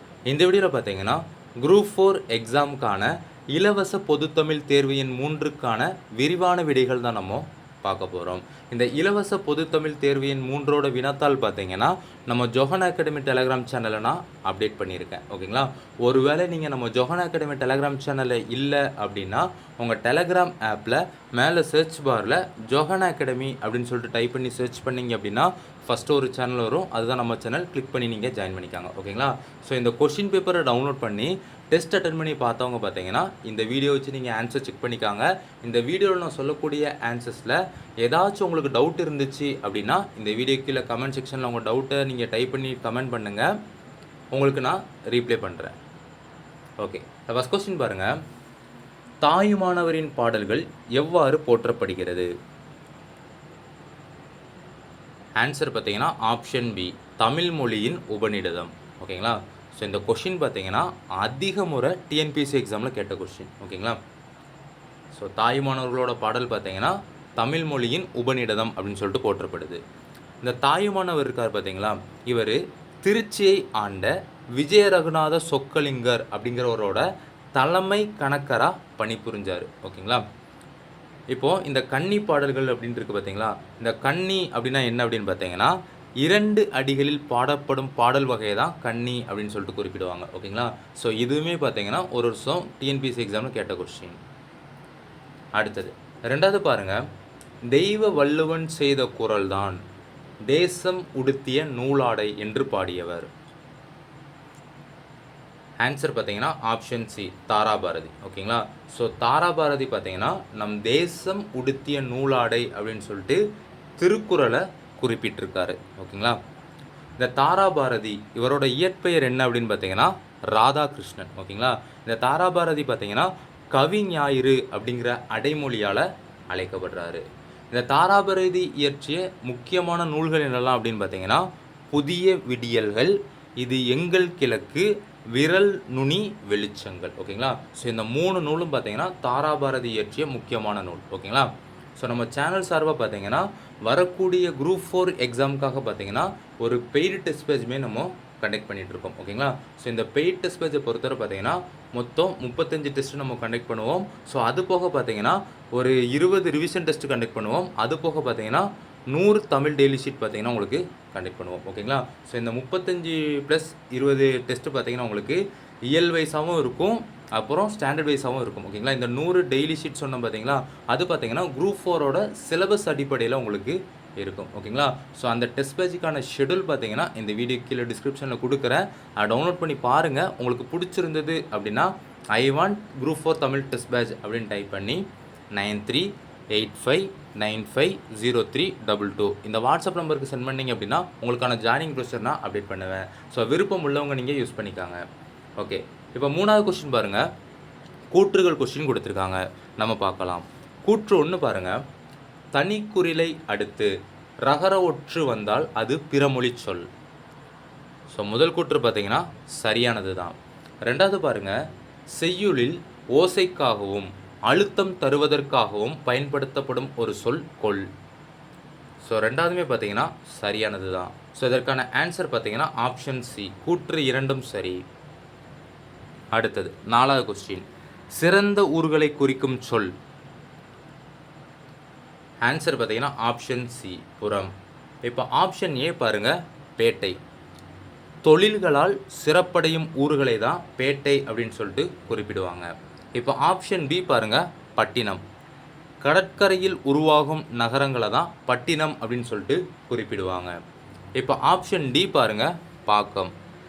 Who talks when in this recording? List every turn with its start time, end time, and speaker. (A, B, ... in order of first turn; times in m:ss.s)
0:00.3-0:43.5 A
0:44.3-0:45.8 A
0:46.8-0:48.2 A
0:49.2-0:52.3 A
0:55.4-1:04.0 A
1:05.1-1:09.8 A
1:10.4-1:17.0 A
1:17.6-1:20.2 A
1:21.3-1:34.2 A
1:35.6-1:37.0 A
1:37.7-1:39.8 A
1:40.5-1:43.3 A
1:45.8-1:53.4 A
1:54.0-1:56.4 A
1:57.2-3:15.0 A
3:15.6-3:17.2 A
3:18.1-3:21.8 A
3:22.5-3:23.9 A
3:24.4-3:26.9 A
3:28.1-3:31.6 A
3:32.1-3:37.9 A
3:39.0-3:44.8 A
3:46.3-3:49.9 A
3:52.4-3:54.5 A
3:55.0-3:57.2 A
3:58.2-4:05.2 A
4:06.0-4:10.6 A
4:11.2-4:13.3 A